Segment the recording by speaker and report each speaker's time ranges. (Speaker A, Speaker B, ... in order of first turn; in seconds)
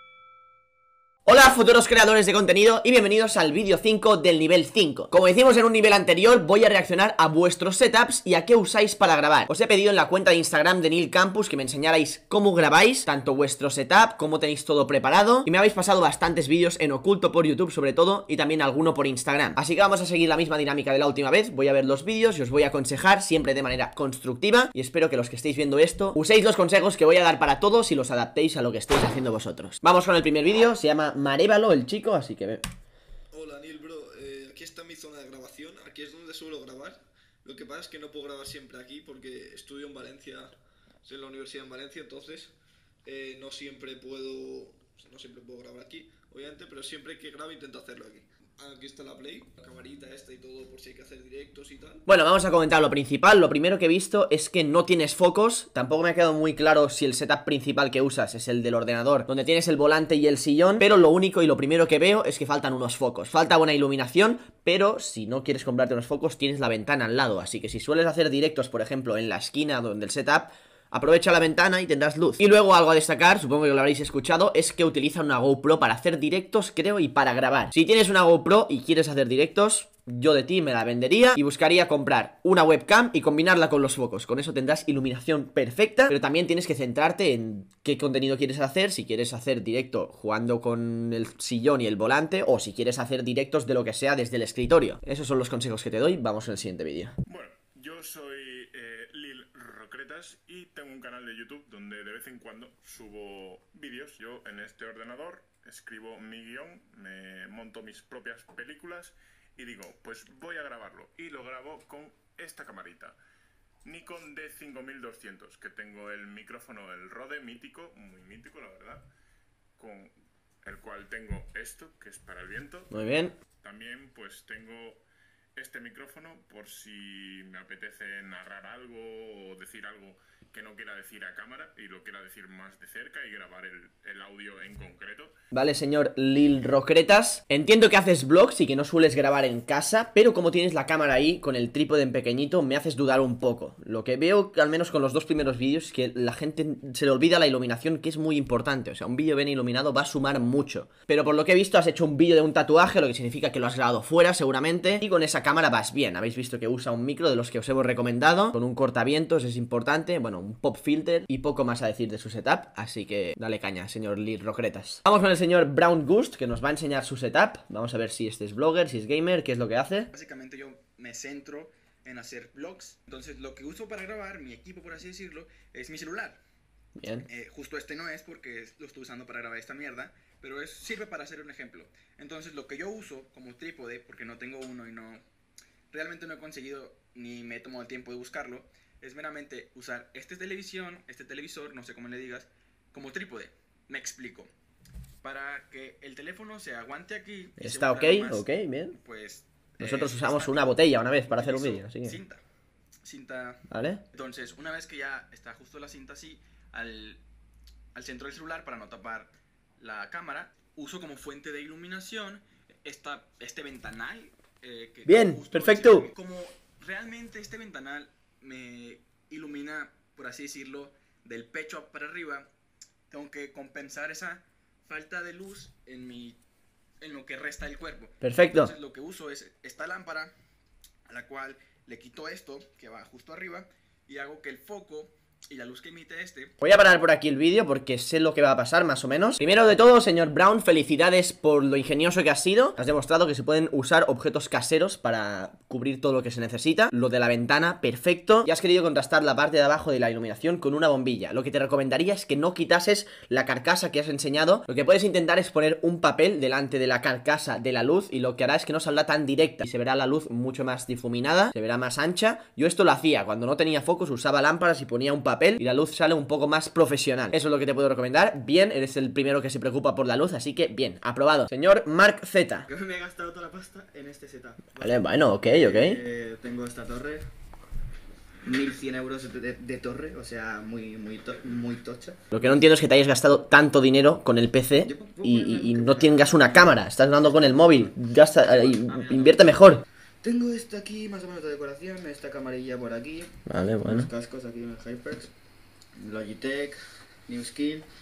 Speaker A: 1.3-32.6, 52.1-97.2, 122.9-123.3, 135.5-170.1, 177.0-177.3, 197.6-198.9, 199.8-202.2, 203.7-204.0, 215.1-216.1, 228.2-228.7, 236.6-272.7, 274.8-276.0, 282.3-289.8, 293.5-294.1
Speaker B: 33.3-40.5, 41.0-42.5, 43.0-52.0
Speaker C: 97.3-113.2, 113.8-119.0, 119.8-120.1, 120.7-122.9, 123.6-125.0, 125.6-135.3
Speaker D: 170.1-176.4, 177.3-185.2, 185.9-194.5, 195.2-202.4, 203.0-203.6, 204.1-207.2, 207.9-222.4, 223.1-226.4, 227.0-230.3, 231.1-236.5
Speaker E: 272.7-277.3, 278.5-282.5, 284.8-287.9, 288.5-289.5, 290.2-293.3, 293.9-295.3, 296.0-297.9